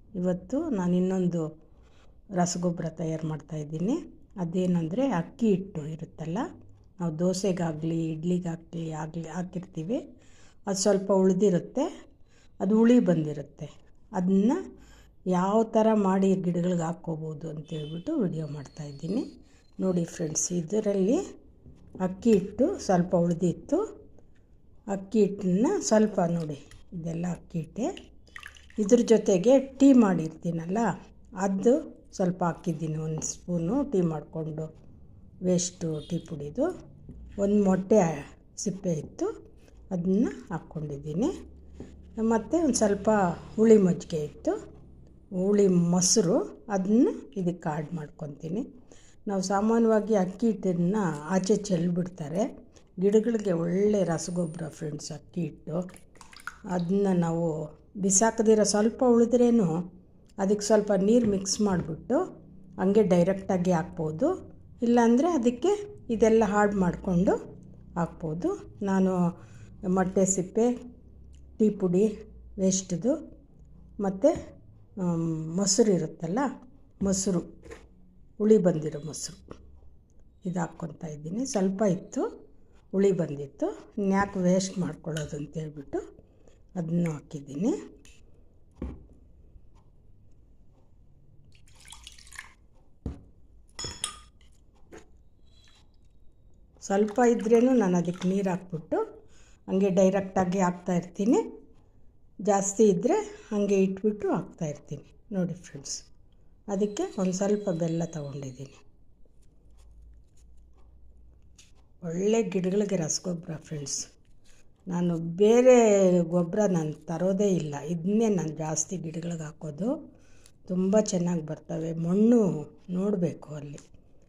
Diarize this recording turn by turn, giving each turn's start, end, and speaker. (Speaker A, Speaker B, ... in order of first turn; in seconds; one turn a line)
Speaker A: 0.1-1.4
Speaker A: 2.4-6.4
Speaker A: 7.0-10.0
Speaker A: 10.7-11.9
Speaker A: 12.6-14.6
Speaker A: 15.3-19.2
Speaker A: 19.8-21.2
Speaker A: 22.0-23.8
Speaker A: 24.9-27.9
Speaker A: 28.8-30.9
Speaker A: 31.4-34.7
Speaker A: 35.5-36.7
Speaker A: 37.4-39.3
Speaker A: 39.9-41.3
Speaker A: 42.2-44.5
Speaker A: 45.4-48.6
Speaker A: 49.3-52.5
Speaker A: 53.0-55.8
Speaker A: 56.7-57.5
Speaker A: 58.0-59.7
Speaker A: 60.4-62.2
Speaker A: 62.8-64.3
Speaker A: 64.8-67.3
Speaker A: 68.0-69.2
Speaker A: 69.9-70.7
Speaker A: 71.6-72.1
Speaker A: 72.6-73.2
Speaker A: 74.0-74.3
Speaker A: 75.0-76.5
Speaker A: 77.0-77.5
Speaker A: 78.4-79.4
Speaker A: 80.4-82.3
Speaker A: 82.9-86.0
Speaker A: 86.8-87.7
Speaker A: 96.8-99.0
Speaker A: 99.7-101.4
Speaker A: 102.5-106.0
Speaker A: 106.7-108.8
Speaker A: 112.0-114.0
Speaker A: 114.9-119.9
Speaker A: 120.7-123.8